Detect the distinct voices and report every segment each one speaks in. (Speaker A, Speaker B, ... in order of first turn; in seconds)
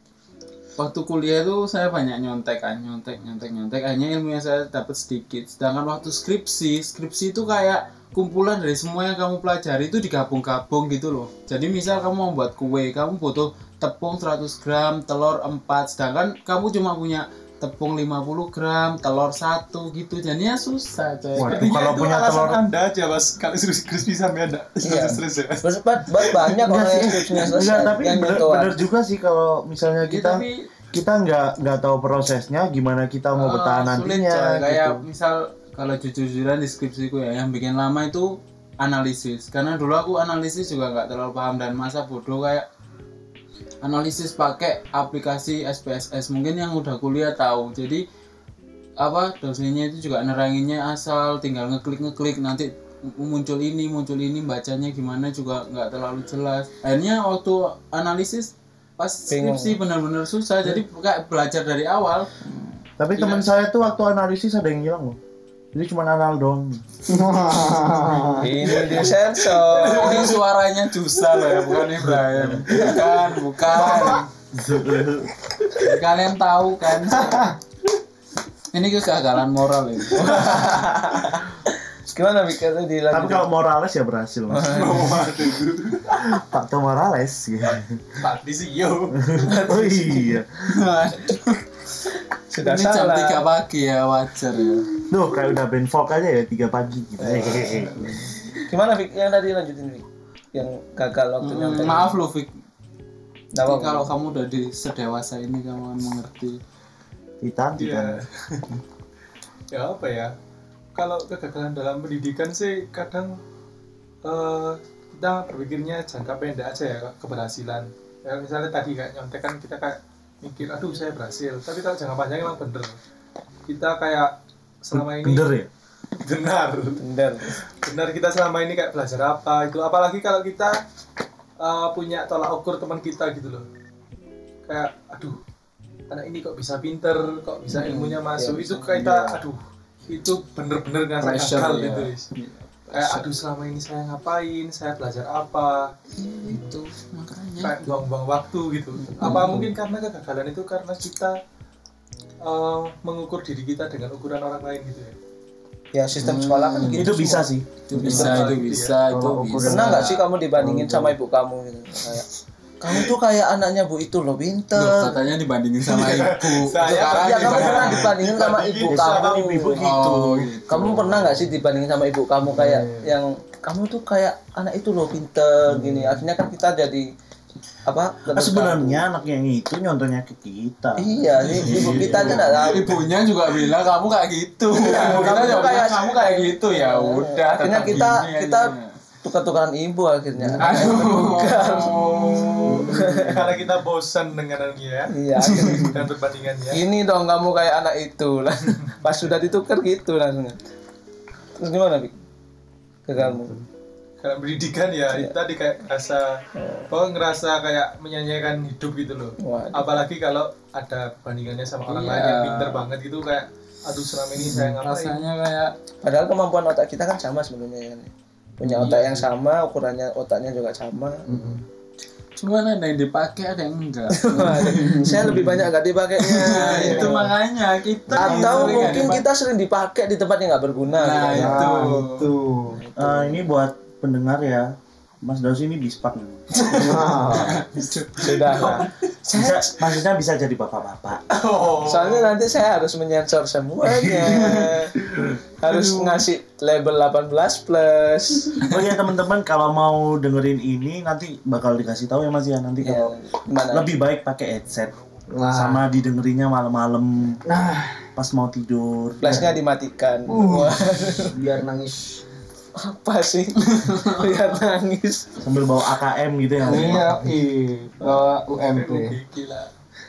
Speaker A: 0.8-21.7, 30.0-30.7, 33.3-42.7, 43.8-48.0, 49.0-62.3, 63.1-63.5, 69.7-74.3, 75.8-77.5, 78.7-80.7, 90.6-91.6, 92.6-94.9, 101.4-102.5, 103.6-106.6, 141.2-143.3, 146.2-148.0, 149.2-149.6, 156.2-157.1, 157.9-160.2, 164.8-168.1, 169.8-171.4, 181.7-188.9, 190.6-193.0, 195.5-195.8, 211.8-212.9, 214.4-215.7, 218.6-219.2, 222.4-225.4, 226.2-229.2, 231.0-232.3, 237.3-238.8, 263.8-264.2
Speaker B: 21.4-22.6, 26.6-35.0, 63.0-65.2, 65.7-66.8, 74.5-75.3, 83.1-85.1, 86.2-88.0, 89.1-90.8, 95.1-98.1, 107.4-108.2, 124.9-125.7, 156.9-157.8, 159.1-160.0, 168.9-170.5, 178.3-182.8, 232.9-236.7, 239.3-241.2, 248.6-253.1, 253.7-254.9, 255.5-257.4, 258.1-259.5, 265.4-267.2
Speaker C: 21.4-26.6, 68.7-70.4, 71.3-71.8, 72.7-73.0, 73.9-74.2, 84.7-86.3, 88.2-89.8, 107.8-108.7, 109.7-110.3, 110.9-113.4, 114.2-123.0, 123.7-125.5, 126.2-130.8, 131.6-133.7, 134.7-135.4, 136.1-142.3, 142.9-146.0, 147.6-151.4, 152.4-155.2, 158.0-159.1, 165.8-169.6, 184.7-185.9, 192.2-196.8, 204.2-215.2, 236.6-237.1, 237.7-238.9, 241.3-242.4, 268.5-269.7
Speaker D: 24.8-28.8, 59.3-59.8, 68.4-70.4, 80.1-81.5, 82.1-83.5, 84.5-85.1, 89.4-90.3, 92.5-93.4, 97.2-97.9, 98.6-102.1, 103.5-104.1, 127.0-127.5, 137.7-139.2, 155.9-158.5, 159.6-162.2, 162.8-165.2, 167.0-169.8, 170.7-177.1, 177.8-179.0, 181.0-182.9, 184.9-192.0, 192.8-193.4, 195.1-196.0, 196.7-200.6, 201.6-202.1, 203.1-203.6, 206.6-206.9, 209.4-209.9, 216.0-221.2, 224.1-227.3, 228.1-231.7, 232.7-233.4, 238.2-239.7, 241.8-245.0, 245.6-248.7, 252.8-254.0, 259.2-261.3, 262.8-265.3
Speaker E: 67.1-68.5, 159.1-159.8, 160.7-161.0, 172.5-172.8, 203.2-203.6, 221.3-221.6, 224.7-225.5, 226.7-227.1, 228.1-229.1, 231.3-232.8, 236.7-237.7, 255.3-255.8, 257.4-258.1, 260.3-262.2, 266.6-269.2